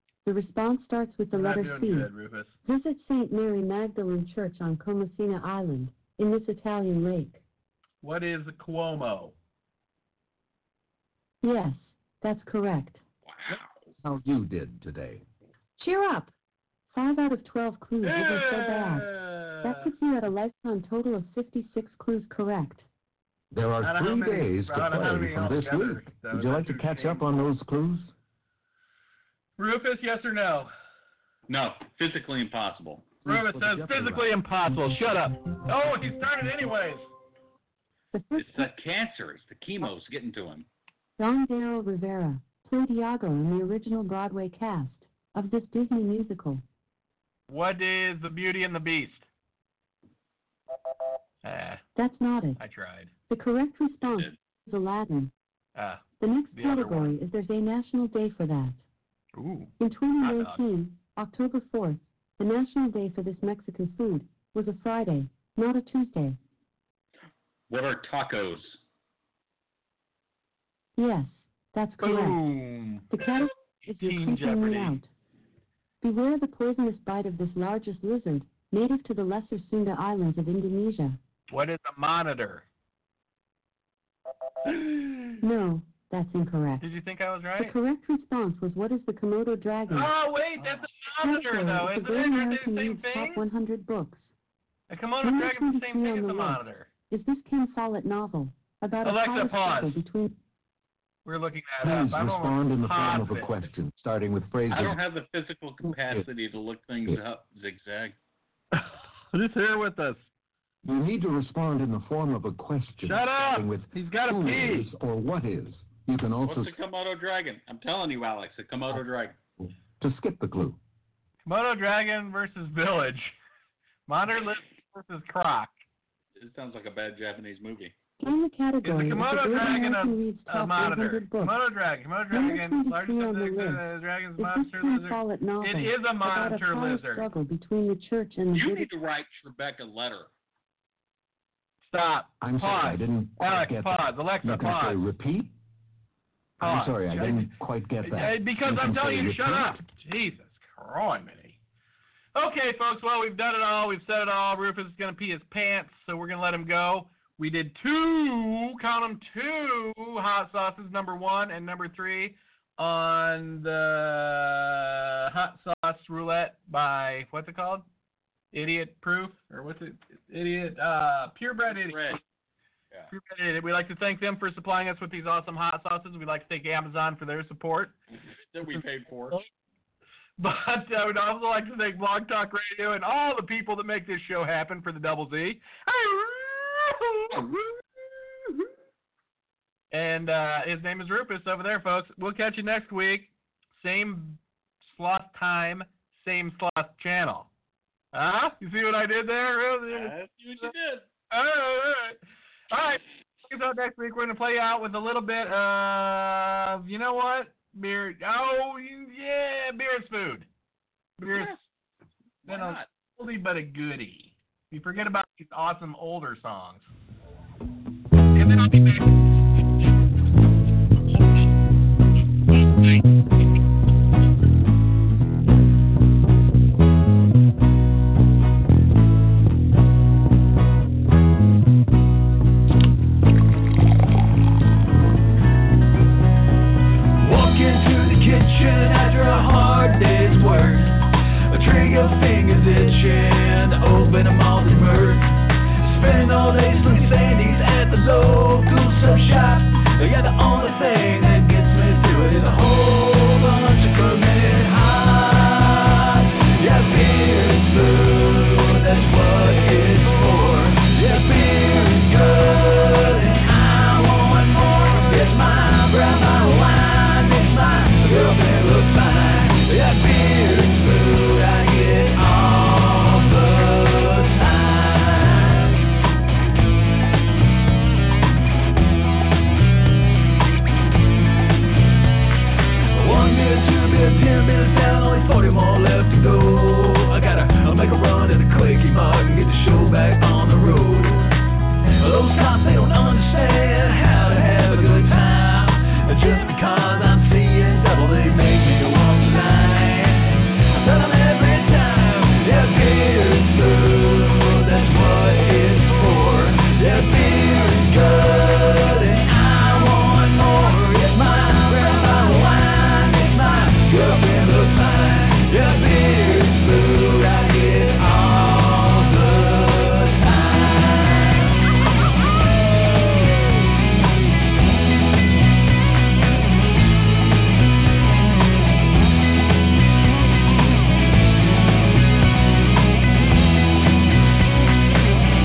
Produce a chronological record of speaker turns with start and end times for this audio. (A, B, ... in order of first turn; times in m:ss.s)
0:00.2-0:02.1 A
0:01.3-0:02.6 B
0:02.6-0:07.4 A
0:08.0-0:09.4 B
0:11.4-0:13.0 A
0:13.3-0:13.8 C
0:14.0-0:15.2 D
0:15.8-0:16.3 A
0:16.9-0:22.9 A
0:18.0-0:19.9 B
0:23.5-0:28.1 D
0:23.8-0:27.3 B
0:29.6-0:30.7 B
0:31.5-0:33.1 C
0:33.2-0:34.3 D
0:33.2-0:37.1 B
0:38.1-0:38.7 A
0:38.4-0:40.7 C
0:41.2-0:46.6 A
0:47.5-0:49.3 B
0:51.4-0:51.8 B
0:52.0-0:52.6 A
0:52.6-0:53.1 B
0:53.3-0:55.3 A
0:55.8-0:57.2 B
0:56.2-0:58.8 A
0:59.3-1:00.6 B
0:59.8-1:06.4 A
1:07.7-1:08.8 C
1:11.0-1:12.4 A
1:12.0-1:13.1 B
1:13.1-1:15.1 A
1:13.9-1:15.0 B
1:16.0-1:21.2 A
1:21.5-1:22.6 B
1:24.6-1:25.4 B
1:25.4-1:26.9 A
1:26.8-1:27.8 B
1:27.6-1:30.1 A
1:29.9-1:33.5 B
1:31.2-1:34.3 A
1:34.9-1:36.9 B
1:35.2-1:40.4 A
1:39.0-1:40.0 B
1:41.2-1:43.6 B
1:41.8-1:45.0 D
1:44.7-1:48.2 C
1:45.8-1:46.3 D
1:48.7-1:50.3 B
1:50.8-1:56.8 D
1:53.0-1:54.9 B
1:56.4-1:59.4 C
2:00.0-2:00.8 D
2:01.4-2:03.4 B
2:04.1-2:05.8 B
2:06.4-2:08.0 C
2:08.2-2:11.6 A
2:08.8-2:17.3 B
2:12.3-2:13.8 A
2:14.4-2:18.9 A
2:18.5-2:20.3 C
2:21.8-2:25.0 B
2:22.4-2:25.5 D
2:26.6-2:29.8 D
2:26.6-2:31.6 B
2:32.4-2:47.9 B
2:48.5-2:52.2 B
2:51.7-2:52.2 C
2:53.1-2:57.9 B
2:58.1-2:59.4 C
3:00.4-3:08.7 B
3:09.9-3:17.5 B
3:18.1-3:20.7 B
3:19.9-3:21.1 C
3:21.3-3:30.5 B
3:31.2-3:31.6 B
3:31.3-3:31.6 C
3:32.4-3:32.9 C
3:32.5-3:36.9 B
3:38.4-3:39.2 B
3:57.2-4:35.7 E
4:42.9-4:51.3 E
4:52.0-5:21.5 E